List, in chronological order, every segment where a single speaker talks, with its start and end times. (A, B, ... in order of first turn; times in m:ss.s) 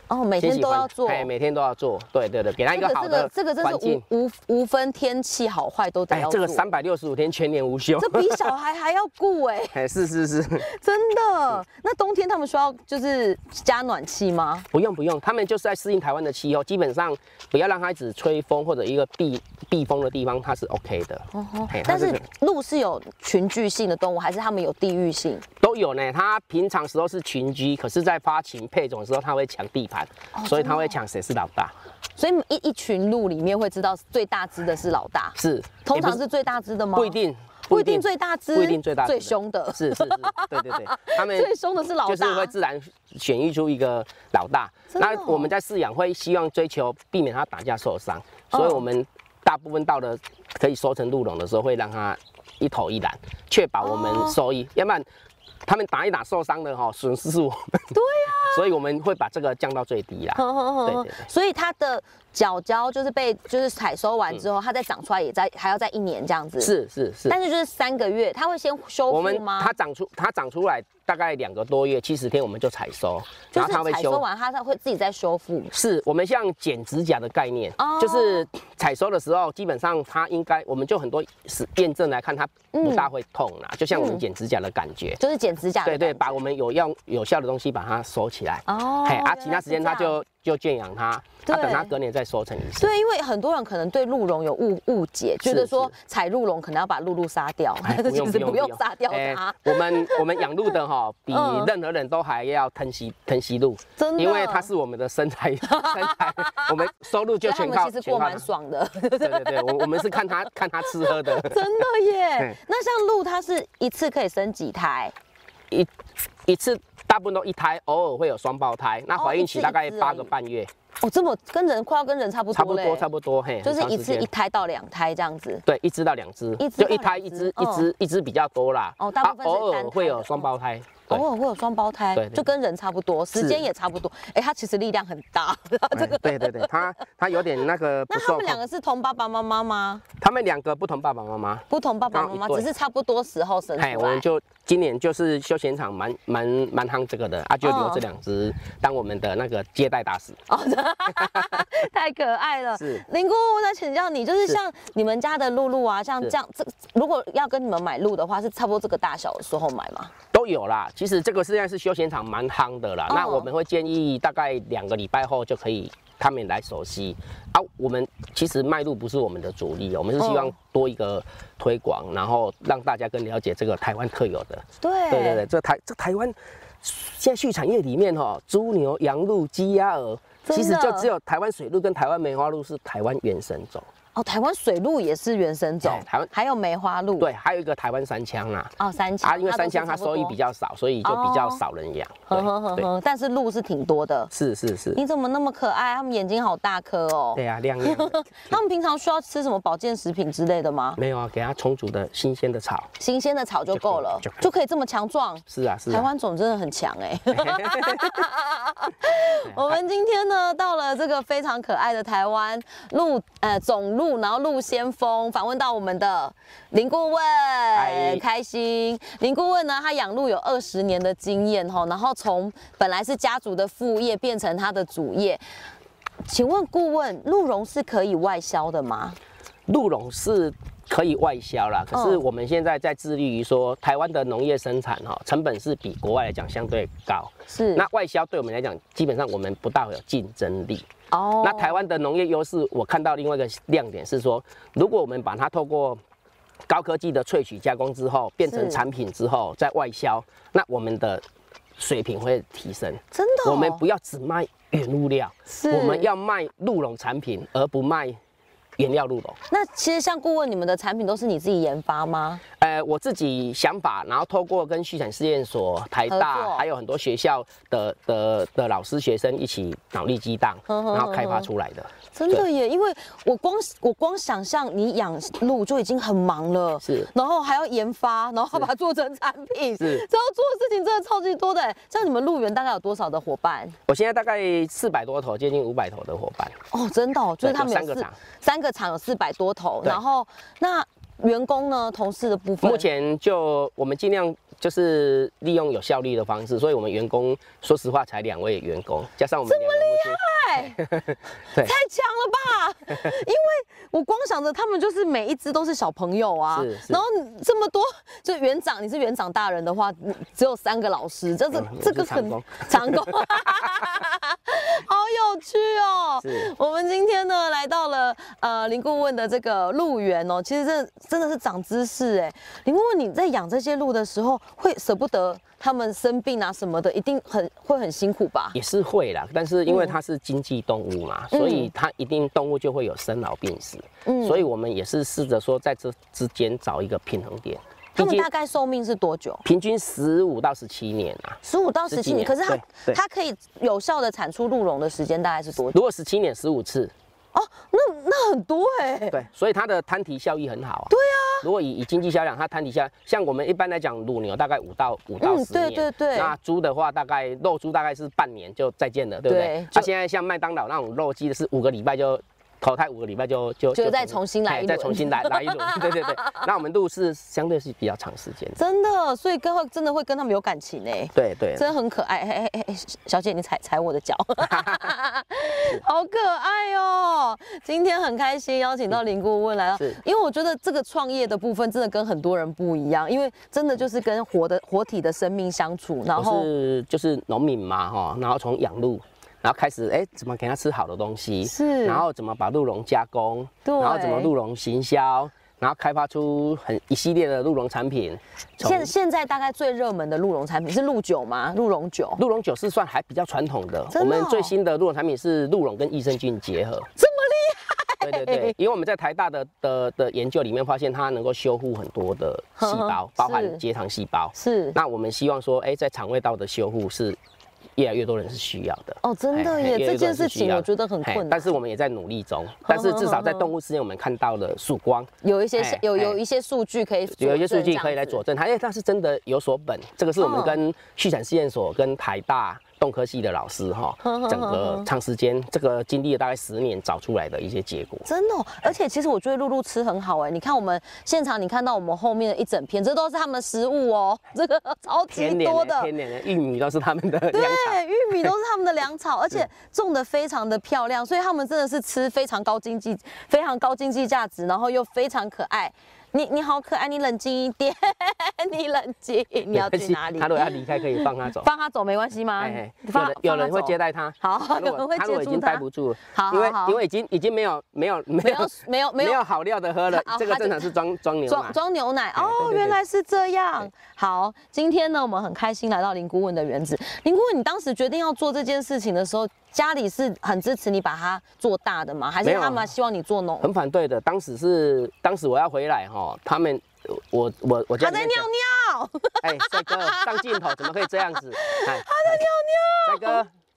0:00.1-0:01.3 A
0:00.4-0:04.0 B
0:02.7-0:06.7 A
0:06.1-0:08.5 B
0:08.0-0:09.8 A
0:09.7-0:10.7 B
0:10.6-0:14.7 A
0:14.7-0:22.2 B
0:21.3-0:25.4 A
0:25.6-0:31.7 B
0:30.3-0:31.0 A
0:32.2-0:37.2 A
0:35.4-0:36.2 B
0:36.9-0:41.5 B
0:37.7-0:42.5 A
0:42.0-0:55.1 B
0:44.9-0:45.5 A
0:48.5-0:48.8 A
0:53.8-0:54.4 A
0:55.6-0:57.9 B
0:57.9-0:58.7 A
0:58.5-1:01.2 B
1:00.3-1:06.7 A
1:06.6-1:07.4 B
1:07.3-1:09.7 A
1:09.1-1:14.2 B
1:13.5-1:15.7 A
1:15.7-1:25.2 B
1:17.8-1:18.4 A
1:22.7-1:23.1 A
1:23.9-1:24.2 A
1:25.2-1:26.4 A
1:25.8-1:32.9 B
1:28.6-1:30.2 A
1:31.4-1:31.9 A
1:32.8-1:40.5 A
1:35.4-1:35.9 B
1:37.8-1:48.4 B
1:41.3-1:41.7 A
1:44.0-1:44.7 A
1:45.7-1:46.9 A
1:47.4-1:50.4 A
1:49.2-1:51.8 B
1:50.9-1:55.1 A
1:56.4-2:00.7 B
1:59.2-2:00.3 A
2:01.0-2:03.1 A
2:02.5-2:04.3 B
2:03.6-2:05.6 A
2:05.6-2:11.2 B
2:06.6-2:07.9 A
2:09.0-2:10.5 A
2:11.1-2:16.8 A
2:12.1-2:12.4 B
2:13.3-2:13.6 B
2:15.9-2:18.6 B
2:18.1-2:20.0 A
2:20.2-2:22.7 B
2:21.7-2:24.2 A
2:23.8-2:30.4 B
2:27.6-2:28.0 A
2:30.5-2:40.1 A
2:32.8-2:33.0 B
2:40.3-3:03.9 B
2:43.1-2:43.5 A
2:50.2-2:50.5 A
2:54.8-2:55.4 A
3:00.4-3:01.1 A
3:04.1-3:07.3 A
3:05.8-3:06.3 B
3:07.2-3:12.9 B
3:08.8-3:10.4 A
3:11.0-3:11.6 A
3:12.3-3:14.3 A
3:14.3-3:15.0 B
3:14.9-3:21.0 A
3:17.3-3:18.6 B
3:21.0-3:22.9 B
3:23.0-3:45.4 A
3:23.7-3:24.4 B
3:25.5-3:26.1 B
3:27.3-3:28.2 B
3:29.4-3:29.8 B
3:37.7-3:38.2 B
3:46.2-3:49.2 A
3:49.7-4:00.8 B
3:51.9-3:52.2 A
3:57.5-3:57.9 A
4:01.1-4:01.8 A
4:01.4-4:06.0 B
4:06.7-4:11.2 B
4:08.4-4:08.8 A
4:11.8-4:18.2 B
4:13.1-4:13.8 A
4:15.5-4:16.1 A
4:18.8-4:19.4 B
4:19.5-4:22.4 A
4:22.6-4:32.4 B
4:26.1-4:26.6 A
4:30.7-4:31.5 A
4:32.1-4:43.8 A
4:36.8-4:37.1 B
4:39.8-4:40.0 B
4:43.9-4:46.6 B
4:46.7-4:52.8 A
4:47.4-4:48.1 B
4:52.6-5:01.7 B
4:59.4-5:00.8 A
5:01.5-5:28.6 A
5:06.5-5:07.0 B
5:11.5-5:13.5 B
5:16.2-5:16.5 B
5:28.5-5:38.3 B
5:29.7-5:30.0 A
5:31.3-5:31.7 A
5:34.0-5:34.5 A
5:38.0-5:39.4 A
5:39.4-5:41.4 B
5:41.4-5:45.8 A
5:41.9-5:43.0 B
5:45.7-5:46.9 B
5:47.3-5:49.2 A
5:49.1-6:08.6 B
5:50.9-5:51.5 A
5:55.2-5:56.3 A
5:59.2-5:59.9 A
6:03.7-6:06.4 A
6:08.6-6:26.5 A
6:11.1-6:11.7 B
6:14.4-6:14.9 B
6:26.1-6:38.9 B
6:31.4-6:32.0 A
6:33.6-6:34.3 A
6:38.6-6:42.2 A
6:42.2-6:46.9 B
6:43.9-6:44.5 A
6:47.0-6:48.5 A
6:48.0-6:57.2 B
6:52.6-6:53.6 A
6:54.3-6:54.8 A
6:57.8-7:06.2 B
6:59.0-7:01.6 A
7:02.6-7:03.5 A
7:05.2-7:08.2 A
7:07.2-7:18.0 B
7:10.2-7:10.6 A
7:14.0-7:14.9 A
7:18.0-7:25.9 A
7:25.1-7:28.3 B
7:27.3-7:46.8 A
7:39.5-7:41.5 B
7:42.4-7:51.6 B
7:48.2-7:49.2 A
7:49.9-7:50.7 A
7:51.3-8:03.5 A
7:52.2-7:52.8 B
8:02.2-8:02.7 B
8:03.4-8:08.3 B
8:07.8-8:13.2 A
8:09.2-8:12.2 B
8:12.8-8:13.3 B